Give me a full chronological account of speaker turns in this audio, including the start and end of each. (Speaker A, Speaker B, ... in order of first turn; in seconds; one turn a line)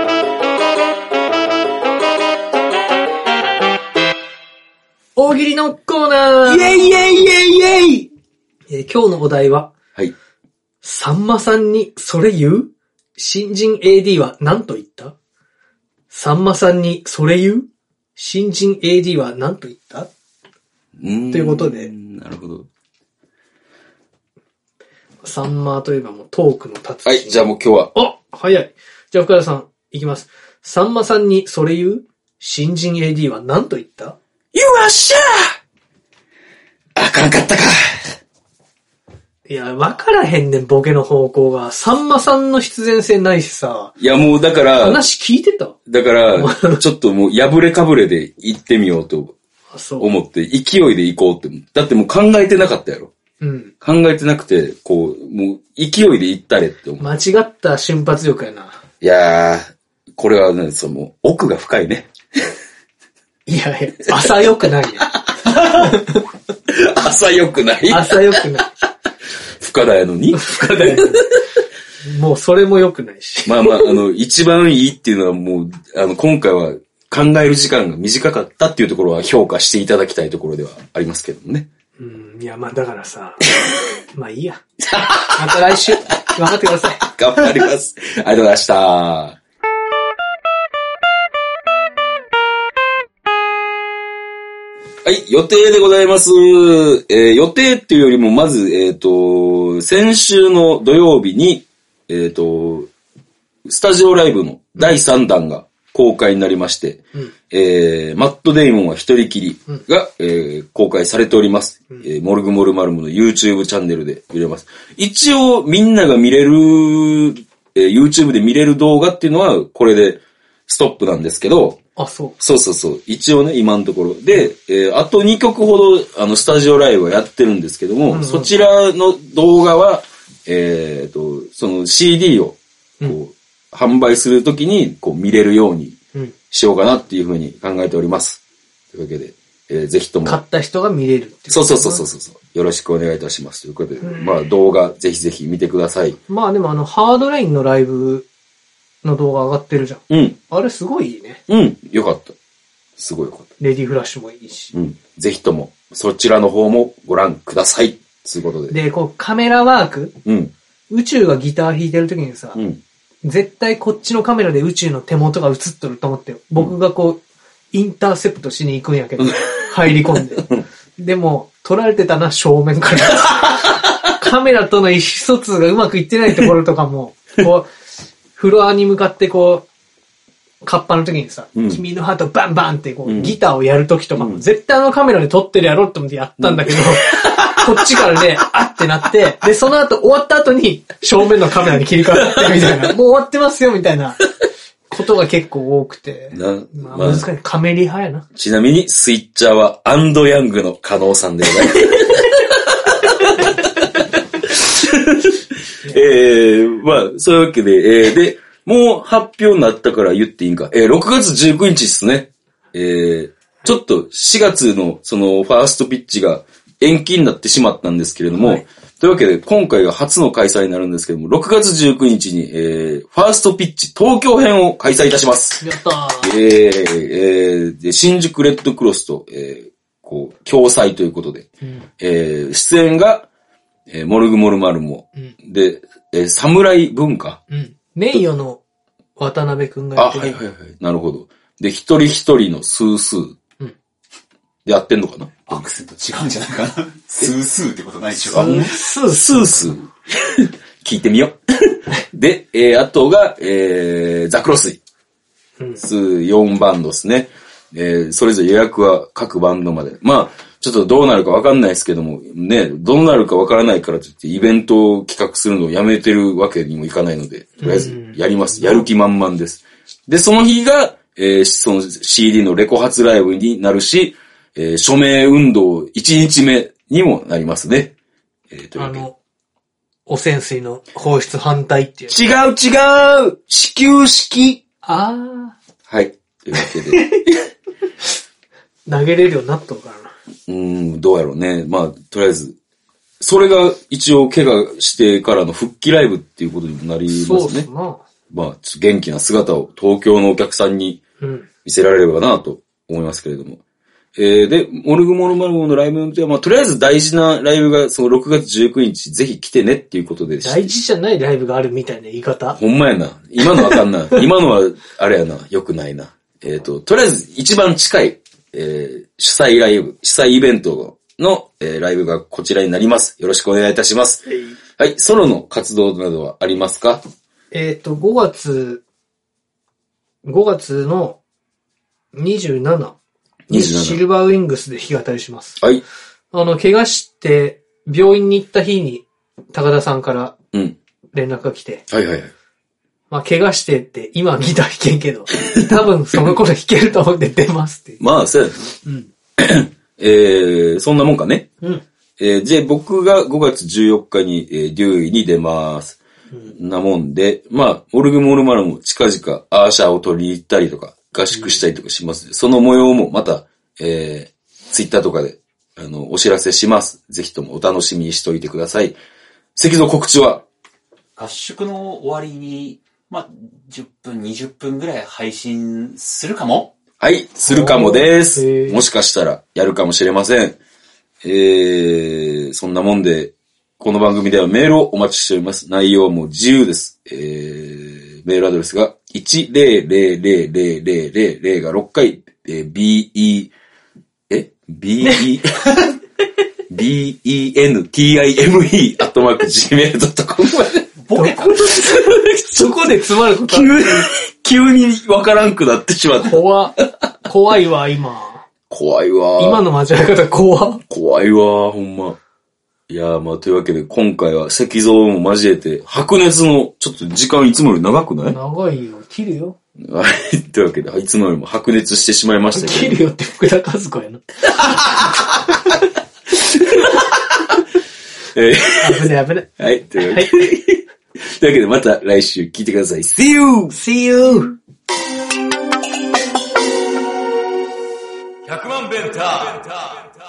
Speaker A: 5.2-7.4
Speaker B: 6.5-8.0
Speaker A: 8.7-9.7
Speaker A: 10.8-15.1
Speaker A: 16.1-20.1
Speaker B: 21.0-22.7
Speaker A: 21.3-21.9
Speaker A: 25.2-34.1
Speaker B: 27.1-27.9
Speaker B: 34.5-35.6
Speaker B: 37.0-38.1
Speaker A: 39.5-44.0
Speaker B: 44.0-45.0
Speaker A: 44.8-45.8
Speaker B: 45.9-49.4
Speaker A: 46.4-46.8
Speaker A: 49.7-50.1
Speaker B: 50.0-53.1
Speaker A: 53.4-53.7
Speaker B: 53.8-57.1
Speaker A: 57.0-58.8
Speaker B: 59.0-62.5
Speaker A: 63.5-66.2
Speaker B: 65.3-66.0
Speaker B: 66.7-68.5
Speaker A: 67.9-68.7
Speaker B: 69.6-71.3
Speaker A: 70.3-71.3
Speaker A: 72.0-74.0
Speaker B: 73.5-81.7
Speaker A: 82.0-83.5
Speaker A: 84.1-84.6
Speaker B: 84.8-86.5
Speaker A: 85.3-87.0
Speaker B: 87.0-89.4
Speaker B: 95.0-102.9
Speaker B: 103.6-121.8
Speaker A: 122.0-122.4
Speaker B: 122.4-136.0
Speaker A: 128.1-128.5
Speaker B: 136.5-138.4
Speaker B: 138.9-140.4
Speaker A: 140.2-142.0
Speaker B: 141.5-146.2
Speaker A: 144.0-144.3
Speaker A: 146.3-148.3
Speaker A: 149.0-151.4
Speaker B: 150.1-150.4
Speaker B: 151.5-152.4
Speaker B: 153.0-153.5
Speaker A: 153.6-154.7
Speaker B: 154.7-158.8
Speaker A: 158.7-160.2
Speaker B: 160.2-160.5
Speaker A: 160.9-162.6
Speaker B: 162.6-162.8
Speaker A: 163.2-177.7
Speaker A: 178.4-179.7
Speaker A: 180.6-194.3
Speaker B: 181.6-181.8
Speaker B: 183.1-183.3
Speaker B: 184.2-184.4
Speaker B: 186.4-187.6
Speaker B: 192.3-192.7
Speaker A: 194.9-198.2
Speaker B: 196.3-197.3
Speaker B: 198.3-225.6
Speaker A: 218.3-218.6
Speaker A: 225.6-226.3
Speaker B: 226.2-231.5
Speaker B: 232.0-233.3
Speaker B: 233.9-237.4
Speaker A: 237.5-238.6
Speaker A: 239.2-240.4
Speaker B: 240.0-243.4
Speaker B: 244.6-245.6
Speaker C: 245.5-248.7
Speaker A: 248.3-249.8
Speaker B: 248.3-254.8
Speaker B: 255.8-277.9
Speaker A: 267.6-268.9
Speaker B: 278.5-279.0
Speaker A: 278.8-279.1
Speaker A: 280.1-282.2
Speaker B: 282.1-284.6
Speaker A: 284.8-285.6
Speaker B: 285.9-287.4
Speaker A: 286.6-287.2
Speaker A: 288.9-290.1
Speaker B: 290.5-292.6
Speaker B: 293.2-297.7
Speaker A: 297.1-298.0
Speaker B: 298.3-301.0
Speaker A: 301.2-301.5
Speaker B: 301.6-303.6
Speaker B: 304.1-310.8
Speaker A: 310.4-312.6
Speaker B: 312.5-324.2
Speaker A: 324.3-324.6
Speaker B: 324.8-327.0
Speaker A: 327.5-328.8
Speaker A: 330.2-331.2
Speaker A: 332.1-332.9
Speaker B: 333.5-334.0
Speaker A: 333.5-335.6
Speaker A: 336.3-340.4
Speaker A: 341.1-341.8
Speaker B: 341.9-342.3
Speaker A: 343.1-348.0
Speaker B: 348.0-348.7
Speaker B: 349.4-351.5
Speaker B: 352.2-369.0
Speaker B: 369.6-370.4
Speaker C: 371.1-376.7
Speaker B: 377.0-380.6
Speaker A: 377.5-378.8
Speaker B: 381.2-393.5
Speaker B: 394.3-395.7
Speaker B: 396.7-400.9
Speaker C: 401.0-401.7
Speaker A: 401.1-404.1
Speaker B: 403.5-406.4
Speaker A: 406.2-408.4
Speaker B: 408.7-409.6
Speaker A: 409.4-410.8
Speaker B: 410.9-412.2
Speaker B: 412.9-418.4
Speaker A: 418.2-419.6
Speaker B: 419.8-423.0
Speaker A: 422.5-424.2
Speaker B: 424.6-425.2
Speaker B: 426.6-427.0
Speaker B: 428.4-429.1
Speaker A: 428.8-429.5
Speaker B: 429.6-433.8
Speaker A: 430.0-430.4
Speaker A: 433.7-434.6
Speaker B: 438.4-440.2